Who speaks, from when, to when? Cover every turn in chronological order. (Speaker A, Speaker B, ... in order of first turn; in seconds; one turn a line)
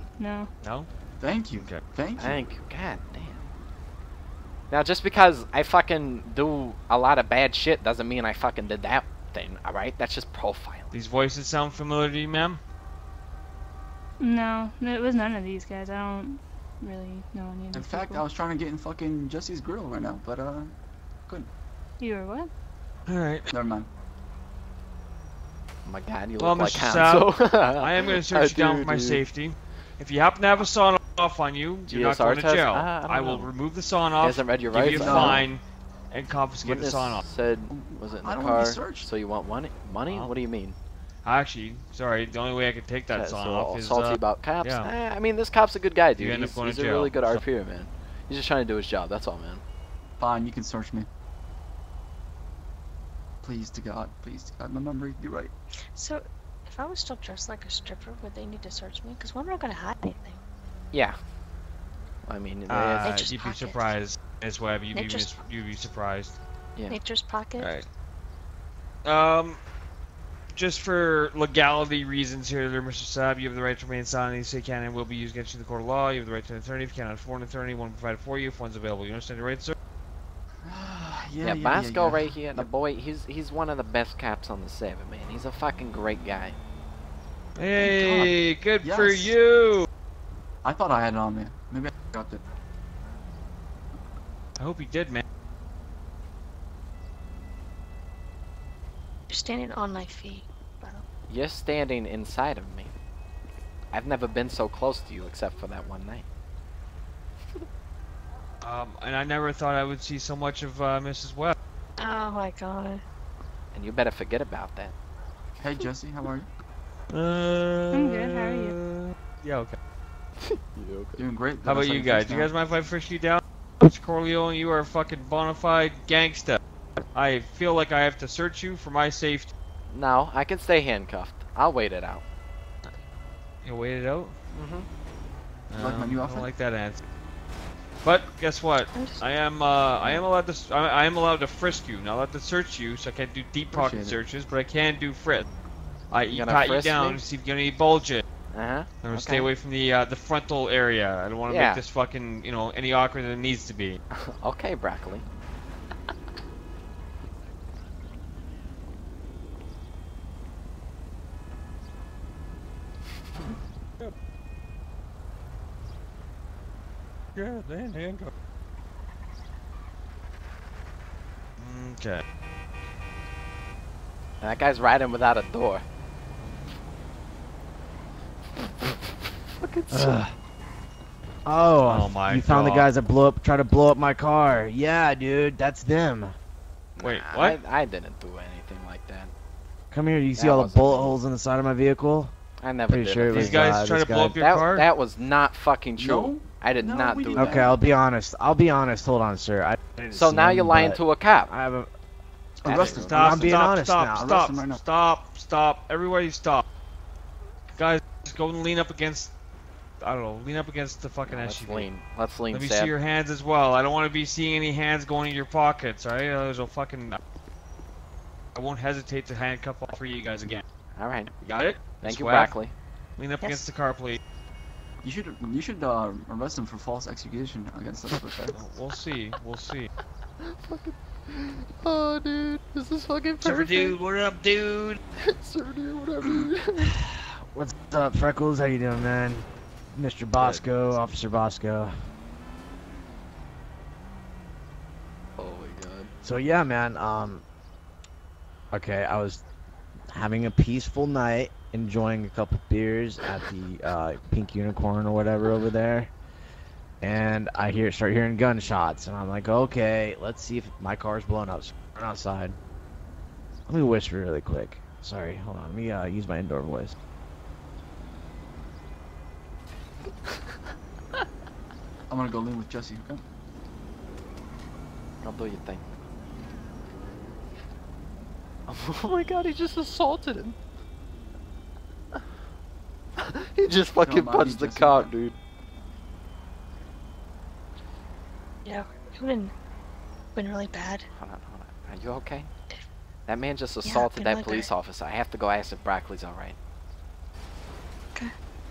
Speaker A: 0.2-0.5
Speaker B: 0.6-0.9
Speaker C: 1.2-2.5
Speaker D: 2.2-3.4
Speaker D: 4.7-10.9
Speaker B: 10.9-12.6
Speaker A: 14.2-18.2
Speaker C: 17.7-20.7
Speaker A: 22.0-22.5
Speaker B: 23.1-23.5
Speaker C: 23.5-23.9
Speaker D: 25.8-29.2
Speaker B: 26.4-37.2
Speaker D: 31.9-33.5
Speaker D: 34.2-35.5
Speaker C: 34.8-35.4
Speaker D: 36.6-40.8
Speaker C: 37.7-39.1
Speaker B: 41.2-44.9
Speaker D: 43.1-49.6
Speaker B: 46.1-47.4
Speaker C: 50.2-51.1
Speaker C: 53.4-55.5
Speaker E: 55.9-60.4
Speaker D: 60.9-61.2
Speaker D: 62.2-63.3
Speaker B: 62.7-66.3
Speaker E: 63.0-63.9
Speaker E: 64.9-65.5
Speaker E: 66.9-67.7
Speaker B: 67.6-67.8
Speaker B: 69.0-69.6
Speaker B: 70.5-79.8
Speaker C: 80.6-82.7
Speaker D: 81.4-86.6
Speaker B: 87.6-89.8
Speaker C: 87.8-89.3
Speaker C: 90.6-92.4
Speaker B: 94.6-95.2
Speaker E: 99.3-101.0
Speaker D: 101.3-102.9
Speaker D: 103.9-106.2
Speaker B: 108.6-111.5
Speaker E: 112.0-113.0
Speaker D: 113.7-114.9
Speaker C: 115.6-116.5
Speaker B: 117.1-119.8
Speaker A: 117.9-118.8
Speaker D: 120.4-121.2
Speaker C: 121.2-122.5
Speaker B: 121.6-126.6
Speaker B: 127.1-129.5
Speaker D: 129.9-132.2
Speaker B: 133.6-134.3
Speaker D: 134.5-134.9
Speaker B: 135.7-137.0
Speaker C: 135.8-136.5
Speaker B: 138.0-145.4
Speaker E: 138.9-139.2
Speaker C: 143.7-144.2
Speaker B: 146.1-148.2
Speaker D: 146.3-147.2
Speaker D: 148.5-149.5
Speaker B: 149.0-154.0
Speaker D: 151.5-151.8
Speaker D: 154.1-155.2
Speaker B: 167.4-168.3
Speaker B: 171.6-172.2
Speaker D: 174.4-175.8
Speaker D: 178.6-180.2
Speaker F: 179.9-180.3
Speaker F: 181.4-186.3
Speaker B: 181.8-182.9
Speaker D: 186.9-189.3
Speaker B: 187.0-187.6
Speaker F: 189.9-192.3
Speaker D: 190.3-191.2
Speaker D: 192.6-197.7
Speaker F: 192.9-194.3
Speaker B: 193.3-194.8
Speaker C: 196.0-197.8
Speaker F: 197.4-201.9
Speaker D: 200.1-201.5
Speaker C: 202.6-204.8
Speaker D: 202.7-203.6
Speaker B: 202.9-206.6
Speaker F: 203.1-204.3
Speaker B: 207.8-209.3
Speaker B: 210.0-211.9
Speaker D: 211.2-212.9
Speaker B: 212.5-217.2
Speaker B: 218.5-220.6
Speaker D: 220.5-221.3
Speaker B: 221.4-222.5
Speaker D: 222.0-222.7
Speaker B: 223.2-224.2
Speaker C: 225.0-228.6
Speaker B: 228.5-229.9
Speaker D: 230.4-234.0
Speaker B: 233.4-235.0
Speaker D: 235.2-236.9
Speaker C: 236.2-236.5
Speaker F: 237.0-242.0
Speaker B: 240.4-240.6
Speaker D: 245.4-246.1
Speaker F: 246.2-247.4
Speaker F: 248.7-249.4
Speaker F: 250.1-256.1
Speaker F: 257.0-262.6
Speaker F: 263.7-266.9
Speaker C: 272.1-273.2
Speaker D: 275.2-275.9
Speaker D: 278.7-280.6
Speaker D: 283.2-285.4
Speaker C: 283.9-285.1
Speaker E: 288.6-289.5
Speaker E: 290.3-291.1
Speaker D: 291.1-292.5
Speaker D: 293.3-296.6
Speaker E: 293.8-294.7